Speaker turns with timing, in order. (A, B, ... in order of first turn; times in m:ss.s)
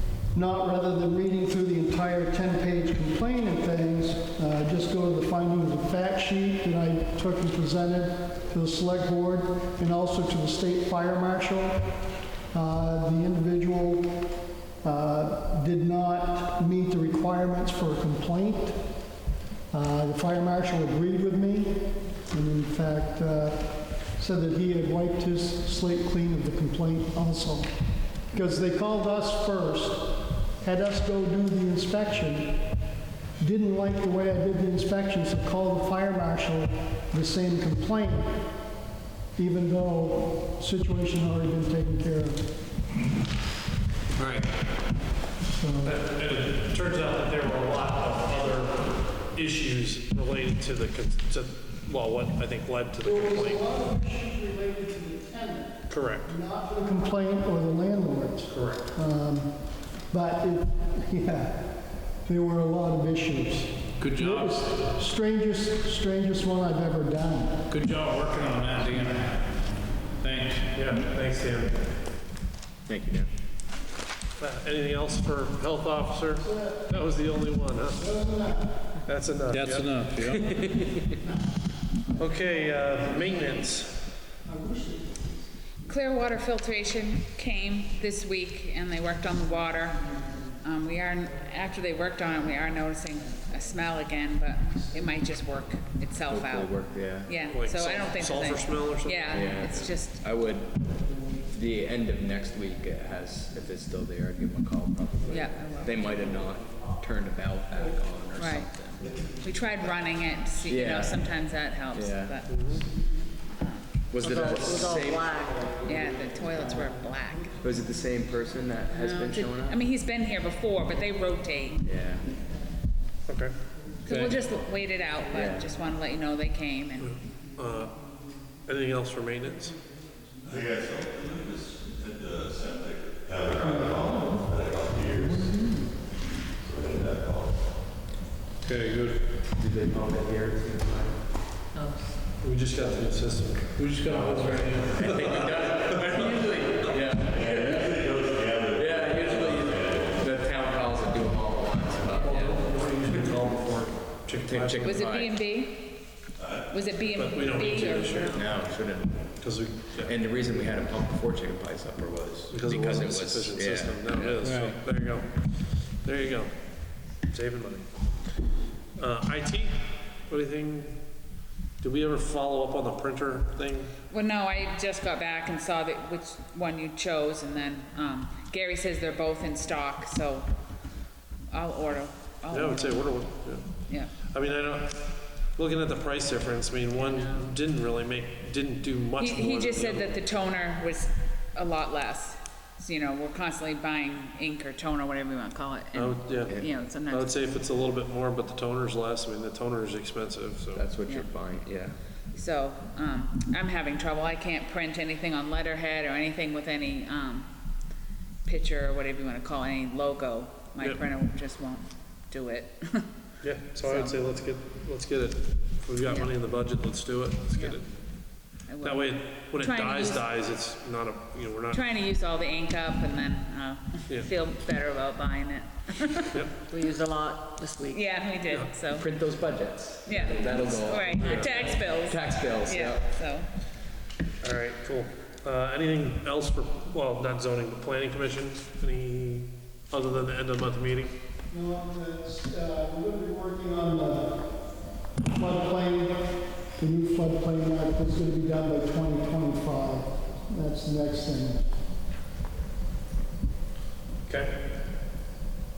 0:00.3-0:11.9 A
0:12.5-0:14.2 A
0:14.8-0:18.8 A
0:19.7-0:27.7 A
0:28.3-0:32.6 A
0:33.4-0:38.5 A
0:39.4-0:42.4 A
0:45.6-0:46.0 A
0:45.8-0:53.6 B
0:53.0-1:07.6 A
0:55.9-0:56.4 B
0:58.5-0:58.9 B
1:04.0-1:04.6 C
1:07.7-1:09.5 C
1:10.2-1:10.7 C
1:10.7-1:11.8 B
1:12.9-1:13.3 D
1:14.4-1:18.0 B
1:16.4-1:16.9 A
1:18.0-1:19.0 A
1:19.0-1:19.9 B
1:19.5-1:20.6 C
1:20.5-1:20.8 D
1:22.2-1:24.0 B
1:24.5-1:25.2 A
1:25.8-1:40.2 E
1:36.3-1:37.3 D
1:37.5-1:39.6 B
1:39.3-1:49.1 D
1:45.3-1:46.2 E
1:48.4-1:48.7 E
1:49.4-1:52.6 E
1:50.7-1:51.2 D
1:51.9-1:52.4 D
1:52.5-1:52.8 B
1:53.5-1:54.1 E
1:54.1-1:55.4 D
1:54.2-1:55.8 F
1:55.7-1:57.6 E
1:57.6-1:59.8 D
1:58.9-2:01.9 E
2:01.8-2:02.3 D
2:03.3-2:03.6 B
2:04.1-2:07.2 E
2:04.1-2:04.4 B
2:05.3-2:05.7 D
2:07.0-2:08.1 B
2:08.6-2:09.8 B
2:10.5-2:15.6 G
2:16.6-2:17.6 G
2:18.6-2:19.3 C
2:19.5-2:21.2 D
2:21.8-2:22.1 F
2:22.4-2:23.8 B
2:23.8-2:25.5 C
2:24.1-2:32.6 D
2:25.0-2:26.1 B
2:27.3-2:30.2 G
2:32.1-2:35.2 B
2:34.4-2:35.4 D
2:34.8-2:36.0 E
2:36.4-2:36.7 G
2:36.7-2:38.4 E
2:37.1-2:38.5 B
2:38.3-2:39.4 D
2:39.4-2:40.2 B
2:40.0-2:44.4 D
2:42.5-2:46.5 B
2:44.4-2:44.8 C
2:47.3-2:47.9 B
2:49.0-2:51.0 B
2:51.8-2:53.9 B
2:54.1-3:00.5 E
3:01.5-3:03.2 E
3:02.5-3:10.2 B
3:03.9-3:04.1 E
3:09.2-3:17.3 E
3:16.0-3:20.9 B
3:20.7-3:22.0 D
3:22.3-3:27.5 E
3:28.4-3:33.2 E
3:33.4-3:37.9 B
3:33.8-3:34.2 E
3:36.0-3:36.3 E
3:38.7-3:40.2 E
3:38.8-3:41.9 B
3:41.7-3:46.5 E
3:46.7-3:48.0 F
3:47.9-3:49.1 E
3:49.0-3:53.2 D
3:50.1-3:53.5 E
3:51.2-3:51.8 B
3:54.4-4:01.1 B
4:01.5-4:04.5 A
4:05.3-4:11.6 A
4:14.3-4:14.6 B